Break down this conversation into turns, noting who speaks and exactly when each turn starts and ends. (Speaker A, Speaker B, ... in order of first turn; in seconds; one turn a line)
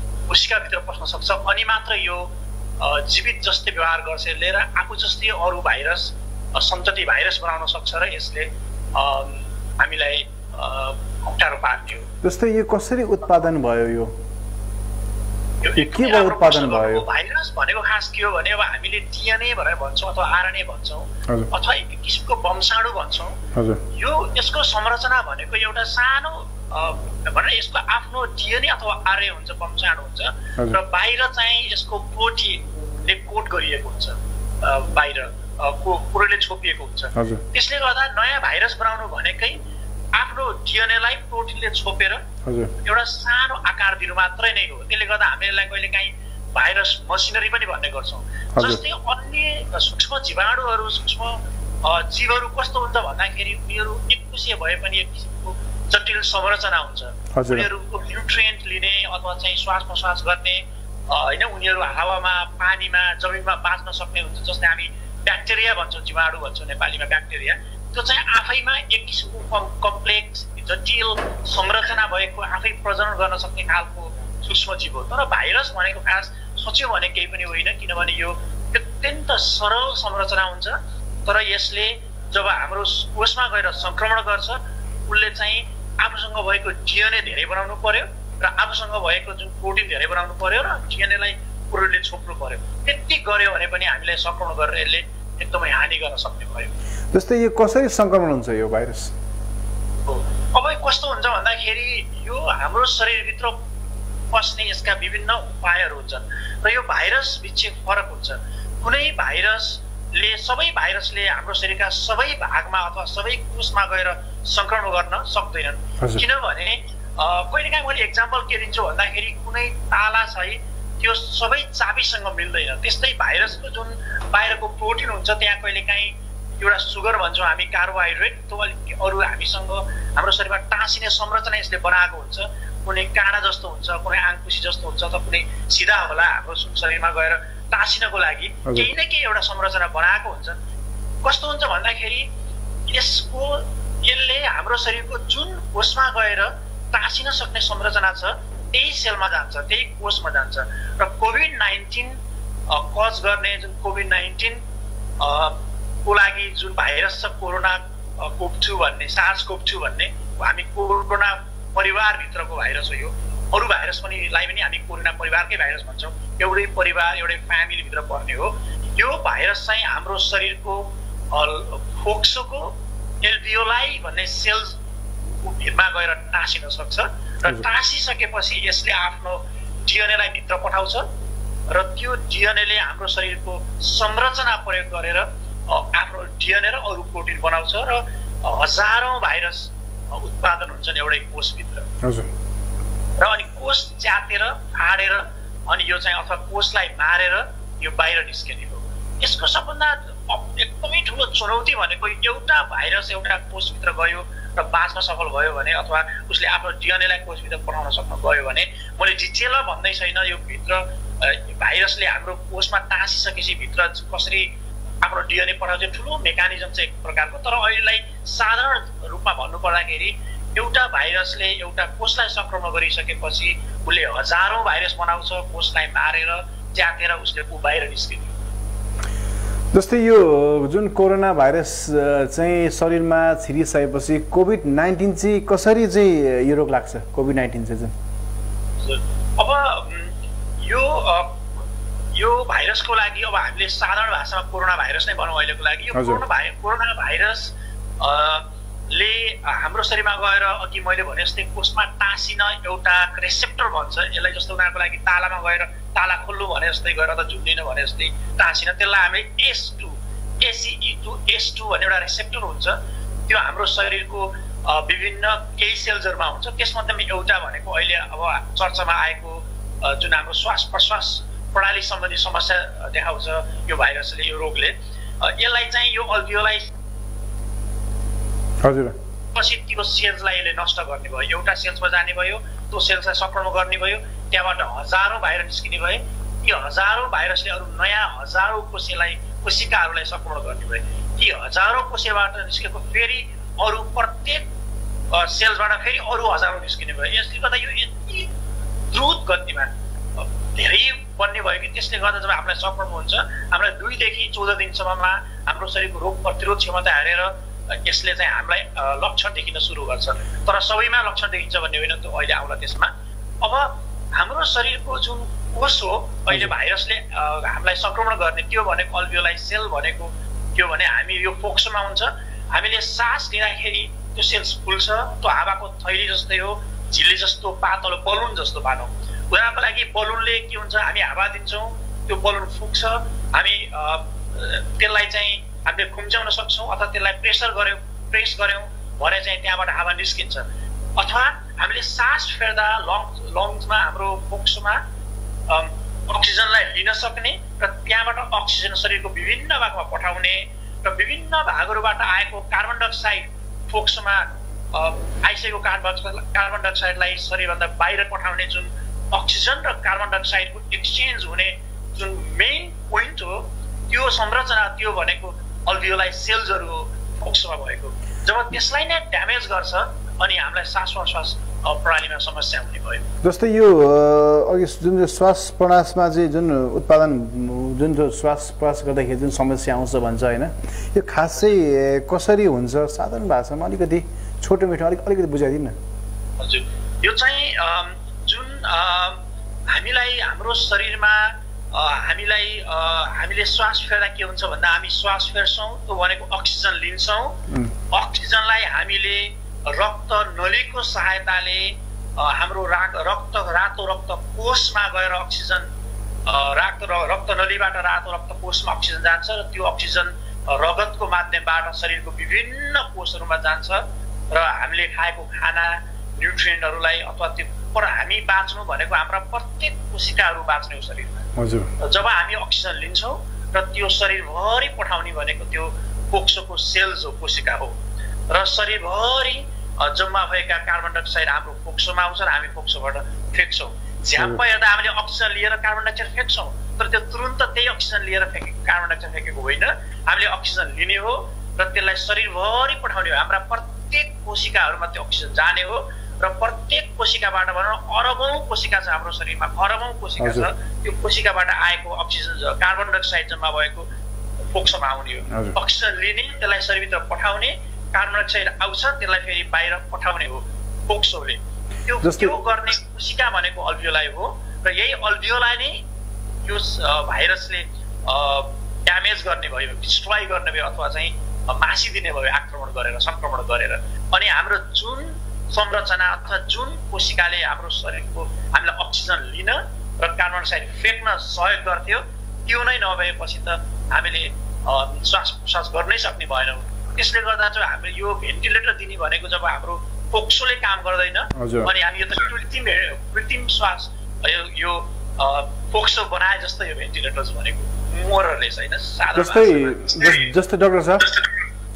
Speaker A: 0.3-2.2
Speaker A: 2.8-12.1
Speaker B: 12.2-14.1
Speaker A: 15.6-39.6
Speaker B: 15.8-17.0
Speaker B: 23.5-23.8
Speaker B: 37.1-37.4
Speaker A: 40.1-42.2
Speaker B: 42.5-42.7
Speaker A: 42.8-96.7
Speaker B: 57.3-57.7
Speaker B: 97.1-99.1
Speaker A: 100.0-103.5
Speaker A: 104.3-140.6
Speaker A: 141.2-142.3
Speaker A: 142.9-152.2
Speaker A: 152.7-154.6
Speaker A: 155.2-174.8
Speaker A: 175.4-181.1
Speaker A: 181.7-191.9
Speaker B: 192.0-192.3
Speaker A: 193.2-228.3
Speaker B: 229.7-237.9
Speaker A: 238.8-241.4
Speaker A: 242.1-262.8
Speaker B: 245.9-246.2
Speaker A: 263.3-276.7
Speaker B: 278.6-278.9
Speaker A: 279.3-294.4
Speaker A: 295.1-298.3
Speaker A: 298.9-344.8
Speaker A: 345.5-373.1
Speaker B: 373.2-385.7
Speaker A: 386.4-405.6
Speaker A: 406.2-421.3
Speaker B: 421.4-421.7
Speaker A: 421.8-427.8
Speaker A: 428.3-453.9
Speaker B: 450.2-450.5
Speaker A: 454.5-465.8
Speaker B: 462.0-462.4
Speaker A: 466.4-500.2
Speaker B: 491.3-491.7
Speaker B: 499.1-501.2